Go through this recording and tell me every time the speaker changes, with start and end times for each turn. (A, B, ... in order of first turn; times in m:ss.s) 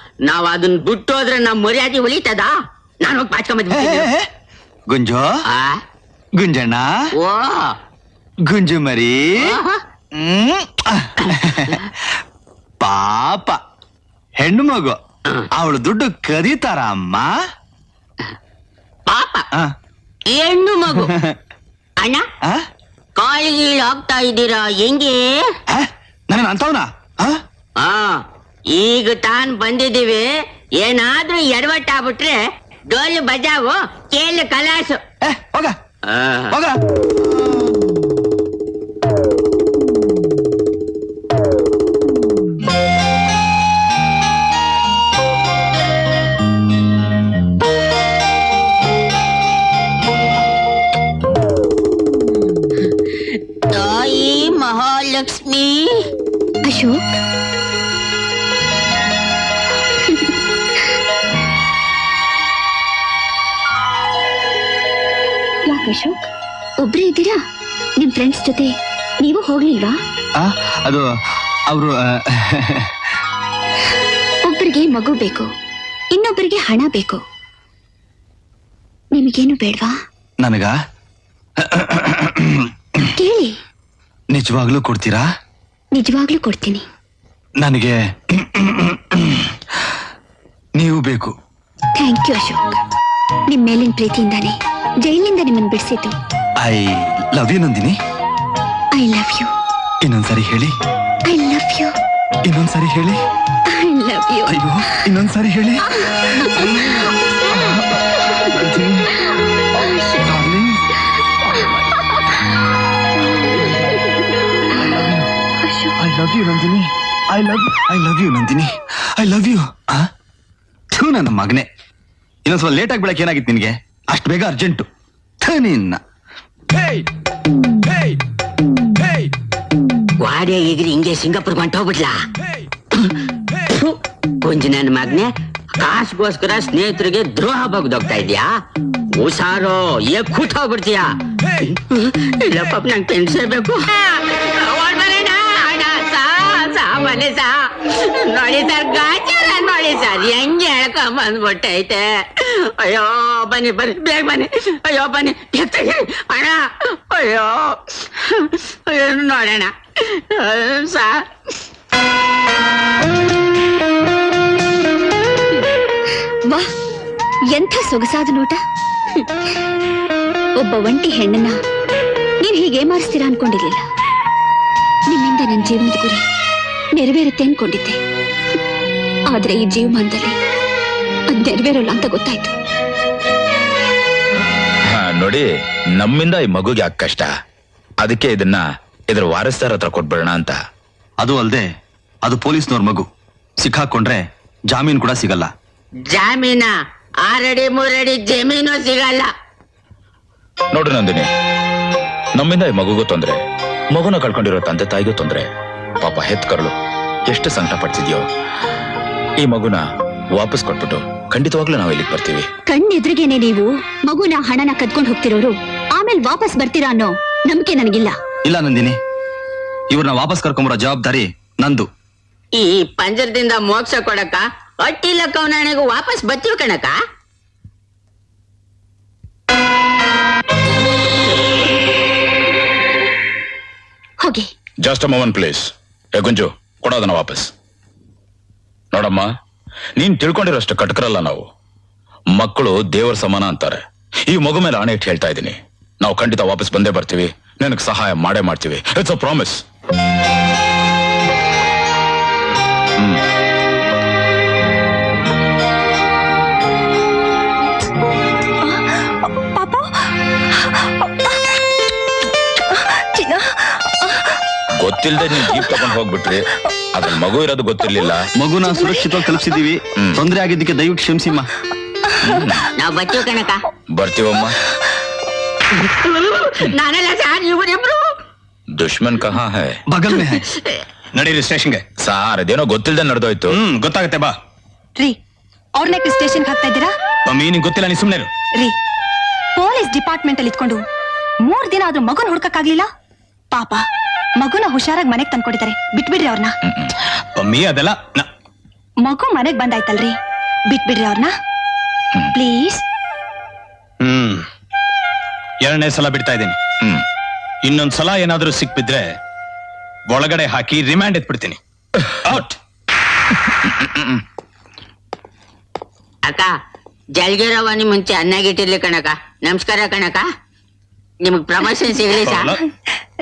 0:00.2-0:02.5 A
0:03.0-0:04.1 A
0:03.7-0:04.3 B
0:04.9-0:05.3 B
0:05.5-0:05.8 A
0:06.4-0:06.9 B
0:07.2-0:07.7 A
0:08.4-0:09.5 B
0:09.4-0:09.8 A
0:10.1-0:11.9 B
0:12.8-0:13.6 B
0:14.4-0:15.0 B
0:15.5-0:17.3 B
0:19.1-0:19.4 A
0:20.3-0:21.1 A
0:20.9-0:21.4 B
0:23.2-0:25.5 A
0:25.7-0:27.4 B
0:27.8-0:28.2 A
0:28.7-0:30.3 A
0:30.8-0:35.0 A
0:35.2-0:35.8 B
0:36.1-0:36.5 A
0:36.5-0:36.8 B
0:53.7-0:56.0 A
0:56.6-0:57.0 C
1:00.0-1:00.4 C
1:05.6-1:06.2 C
1:06.8-1:07.4 C
1:08.0-1:10.0 C
1:10.4-1:11.0 B
1:11.7-1:12.9 B
1:14.5-1:15.5 C
1:16.1-1:17.2 C
1:19.1-1:19.9 C
1:20.4-1:20.7 B
1:21.6-1:22.7 B
1:23.2-1:23.6 C
1:24.3-1:25.2 B
1:25.9-1:26.8 C
1:27.6-1:29.6 B
1:30.8-1:31.3 B
1:32.0-1:32.8 C
1:33.5-1:36.2 C
1:36.6-1:38.0 B
1:38.9-1:39.5 C
1:40.0-1:40.7 B
1:41.3-1:41.9 C
1:42.4-1:43.2 B
1:43.7-1:44.6 C
1:44.5-1:45.8 B
1:45.9-1:47.0 C
1:46.4-1:47.0 B
1:48.4-1:49.1 B
1:50.2-1:50.8 B
1:54.8-1:55.2 B
1:55.6-1:55.9 C
1:56.0-2:00.1 B
2:00.9-2:01.7 B
2:02.4-2:04.9 B
2:05.4-2:06.0 B
2:10.2-2:12.1 A
2:13.7-2:15.3 A
2:15.8-2:18.5 A
2:19.2-2:21.0 A
2:21.6-2:41.2 A
2:47.5-2:48.6 C
2:50.6-2:51.6 C
2:52.4-2:53.8 C
2:55.1-2:56.2 C
2:57.0-2:58.0 C
2:59.3-3:00.4 C
3:01.3-3:02.5 C
3:04.9-3:05.4 D
3:06.0-3:07.3 D
3:08.0-3:10.6 D
3:11.2-3:11.7 B
3:12.2-3:13.0 B
3:13.6-3:15.5 B
3:16.1-3:16.7 A
3:17.3-3:19.3 A
3:20.7-3:21.3 D
3:22.4-3:23.4 D
3:23.9-3:25.4 D
3:26.0-3:26.7 D
3:27.3-3:28.2 D
3:29.4-3:29.8 D
3:30.4-3:32.5 D
3:32.7-3:38.1 C
3:38.4-3:39.0 B
3:39.9-3:41.8 B
3:42.6-3:47.0 A
3:54.2-3:54.5 C
3:54.8-3:57.5 D
3:58.9-3:59.3 D
4:00.0-4:01.4 D
4:02.4-4:03.8 D
4:04.3-4:09.6 D
4:18.6-4:20.0 E
4:21.0-4:21.3 E
4:22.7-4:24.2 E
4:24.8-4:28.3 D
4:28.4-4:31.5 B
4:32.2-4:32.7 D
4:32.8-4:33.6 A
4:33.9-4:34.6 D
4:35.8-4:38.0 A
4:38.8-4:39.8 D
4:39.9-4:40.4 B
4:41.1-4:41.8 F
4:42.0-4:43.6 D
4:43.5-4:44.3 F
4:45.8-4:46.9 E
4:47.2-4:48.3 F
4:49.6-4:50.8 E
4:51.4-4:52.9 E
4:53.5-4:53.8 E
4:54.4-4:56.5 E
4:57.3-4:58.3 F
4:59.0-5:00.2 E
5:00.7-5:01.3 E
5:02.3-5:02.8 E
5:04.0-5:04.4 F
5:05.6-5:06.6 F
5:07.6-5:09.2 F
5:10.1-5:11.6 F
5:12.2-5:12.6 F
5:17.2-5:20.2 A
5:21.2-5:22.5 A